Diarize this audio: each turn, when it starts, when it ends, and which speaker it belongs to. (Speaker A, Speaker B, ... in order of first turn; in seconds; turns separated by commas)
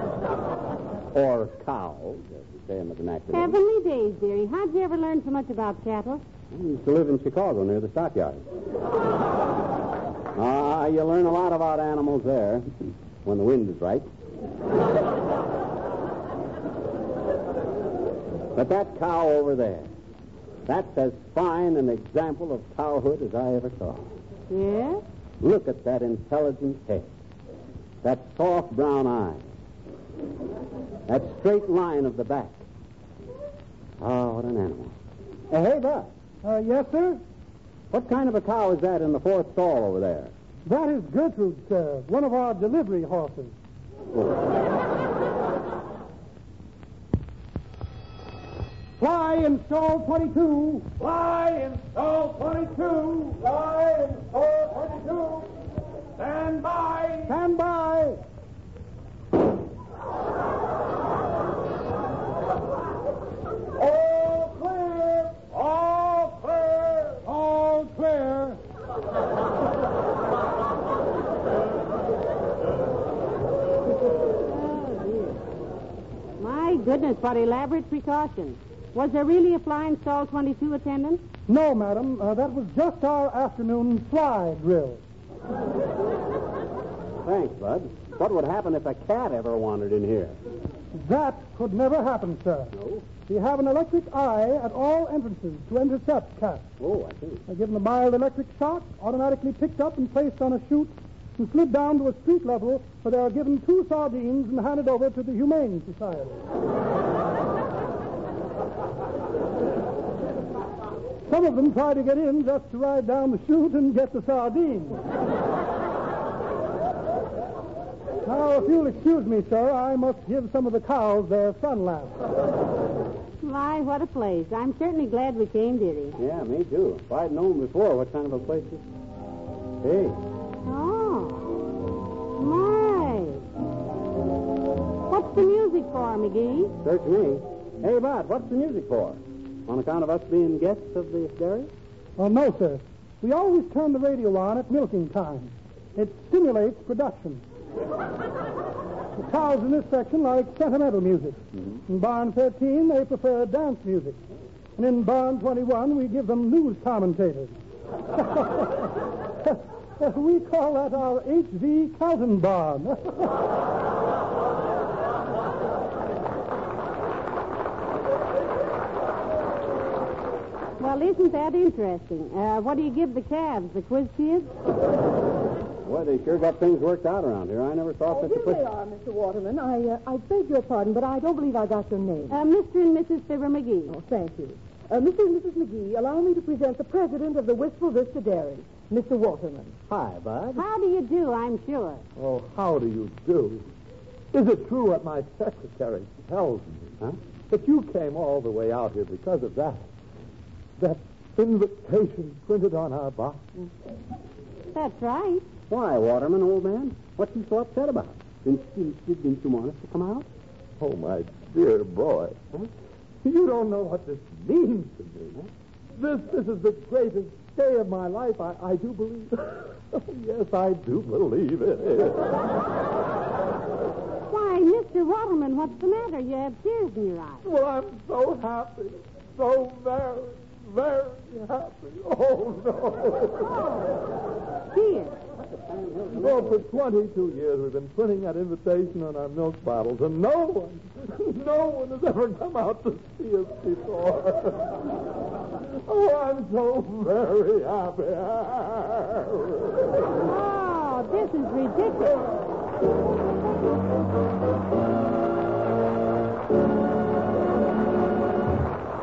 Speaker A: 1.1-3.5, Speaker B: 3.3-6.2, Speaker A: 6.5-8.4, Speaker A: 10.3-12.7, Speaker A: 13.2-14.1, Speaker A: 18.5-19.9, Speaker A: 20.7-24.1, Speaker B: 24.5-25.0, Speaker A: 25.4-27.1, Speaker A: 28.0-29.5, Speaker A: 31.1-32.6, Speaker A: 34.0-34.9, Speaker A: 35.5-36.1, Speaker C: 36.4-37.2, Speaker A: 37.9-40.3, Speaker C: 40.7-43.5, Speaker C: 49.0-50.9, Speaker C: 57.2-58.2, Speaker B: 74.5-75.4, Speaker B: 76.4-81.2, Speaker C: 81.5-85.0, Speaker A: 87.2-90.4, Speaker C: 91.0-92.7, Speaker A: 92.8-93.0, Speaker C: 93.3-96.6, Speaker A: 96.8-97.4, Speaker C: 97.5-106.4, Speaker C: 111.3-114.9, Speaker C: 118.2-122.1, Speaker B: 123.4-126.2, Speaker A: 126.2-128.8, Speaker A: 129.8-130.2, Speaker B: 130.7-131.6, Speaker B: 132.4-133.4, Speaker B: 135.1-136.7, Speaker A: 136.8-141.7, Speaker C: 142.2-147.4, Speaker C: 149.2-151.4, Speaker C: 151.9-154.2, Speaker C: 154.8-157.6, Speaker C: 158.2-158.7, Speaker C: 159.4-163.0, Speaker B: 170.8-174.5, Speaker A: 175.8-178.6, Speaker D: 178.1-182.3, Speaker B: 182.3-184.0, Speaker D: 183.9-189.7, Speaker A: 189.9-190.6, Speaker B: 190.5-192.0, Speaker E: 192.2-193.7, Speaker E: 194.3-196.9, Speaker E: 197.5-199.9, Speaker E: 200.8-203.4, Speaker B: 204.7-205.4, Speaker A: 205.7-210.3, Speaker E: 210.8-212.4, Speaker E: 213.2-222.3, Speaker B: 224.3-227.5, Speaker E: 227.4-233.5, Speaker B: 233.4-234.0, Speaker B: 234.7-235.2, Speaker A: 235.7-236.7, Speaker E: 236.1-244.7, Speaker E: 245.8-249.8, Speaker B: 250.2-252.2